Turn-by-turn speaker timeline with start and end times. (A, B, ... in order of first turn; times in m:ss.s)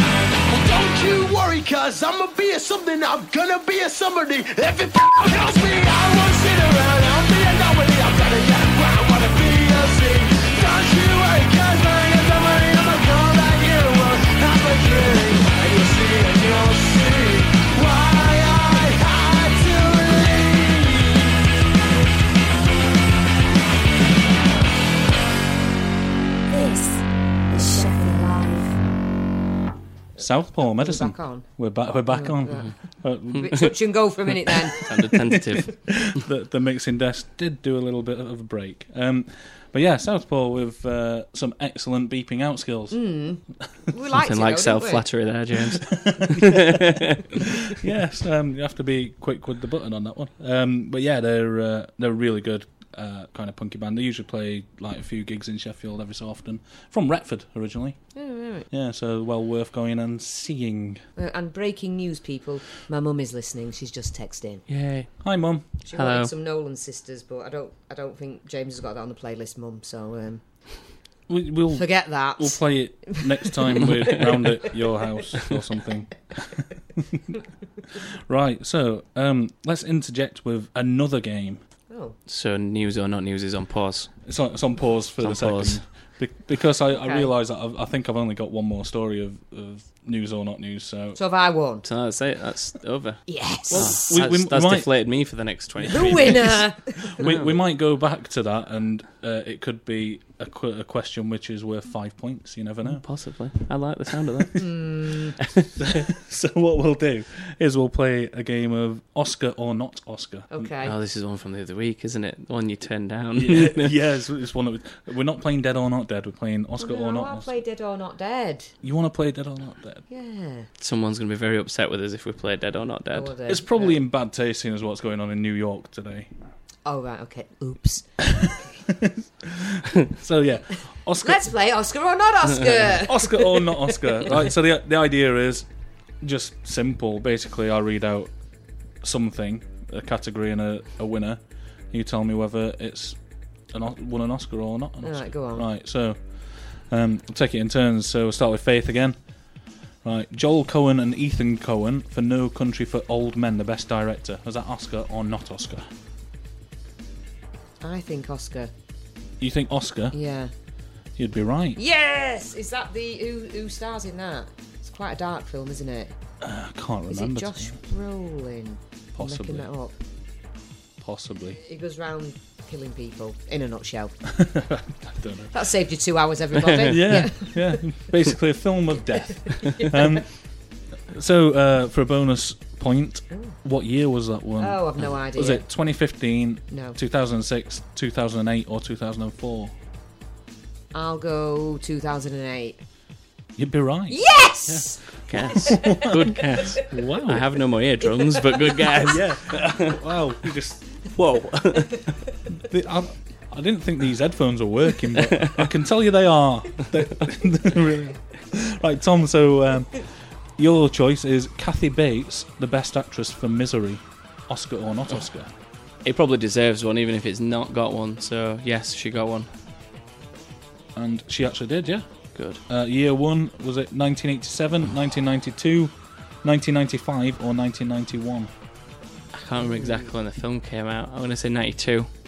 0:00.5-0:21.3 A
0:26.5-0:28.7 B
0:30.2-0:31.5 C
0:30.2-0:33.7 D
0:32.1-0:34.9 C
0:33.3-0:33.6 E
0:34.7-0:36.2 E
0:35.1-0:43.1 D
0:42.9-0:45.0 C
0:44.1-0:47.7 E
0:45.8-0:58.0 D
0:58.1-0:58.7 C
0:58.7-1:01.0 D
1:01.2-1:04.6 C
1:04.7-1:05.1 E
1:05.2-1:05.6 D
1:05.8-1:10.4 C
1:05.9-1:06.3 E
1:11.3-1:17.4 D
1:11.7-1:14.6 C
1:17.9-1:21.6 D
1:21.9-1:22.2 C
1:22.3-1:24.2 E
1:24.2-1:31.2 D
1:25.2-1:25.8 E
1:26.9-1:27.3 C
1:31.2-1:31.8 C
1:31.8-1:36.6 E
1:33.3-1:34.1 C
1:33.7-1:34.9 D
1:35.8-1:37.4 C
1:35.9-1:43.0 D
1:42.8-1:44.8 E
1:44.6-1:45.4 C
1:45.4-1:45.8 E
1:45.8-1:50.7 D
1:50.5-1:50.9 C
1:50.8-1:53.9 E
1:53.3-1:57.5 D
1:56.8-1:58.7 C
1:58.8-2:00.0 D
2:00.1-2:00.7 C
2:00.8-2:03.3 E
2:03.1-2:04.0 C
2:03.5-2:06.3 D
2:06.8-2:08.8 C
2:08.2-2:11.5 D
2:11.2-2:14.3 C
2:12.8-2:15.6 D
2:16.2-2:18.3 D
2:19.0-2:23.2 D
2:23.7-2:29.2 D
2:25.0-2:25.7 C
2:30.0-2:35.9 D
2:37.8-2:38.7 C
2:39.4-2:40.2 D
2:40.1-2:40.5 C
2:41.2-2:41.8 D
2:41.8-2:46.1 C
2:46.4-2:47.8 D
2:47.1-2:49.9 C
2:49.1-2:49.7 D
2:51.0-2:51.6 D
2:51.6-2:54.1 C
2:54.3-2:55.5 D
2:55.5-2:58.0 C
2:56.6-2:57.0 E
2:56.8-3:00.4 D
2:59.4-3:00.0 C
3:01.1-3:09.7 D
3:03.3-3:03.6 C
3:04.6-3:05.7 C
3:06.7-3:07.0 C
3:10.9-3:12.8 C
3:13.6-3:17.5 D
3:14.1-3:16.8 C
3:15.3-3:19.8 E
3:19.0-3:21.7 D
3:21.2-3:22.0 E
3:22.5-3:35.5 D
3:25.2-3:25.7 E
3:36.0-3:39.5 E
3:40.9-3:42.0 D
3:42.3-3:42.6 E
3:42.6-3:48.5 D
3:49.3-3:52.1 E
3:49.6-3:50.1 C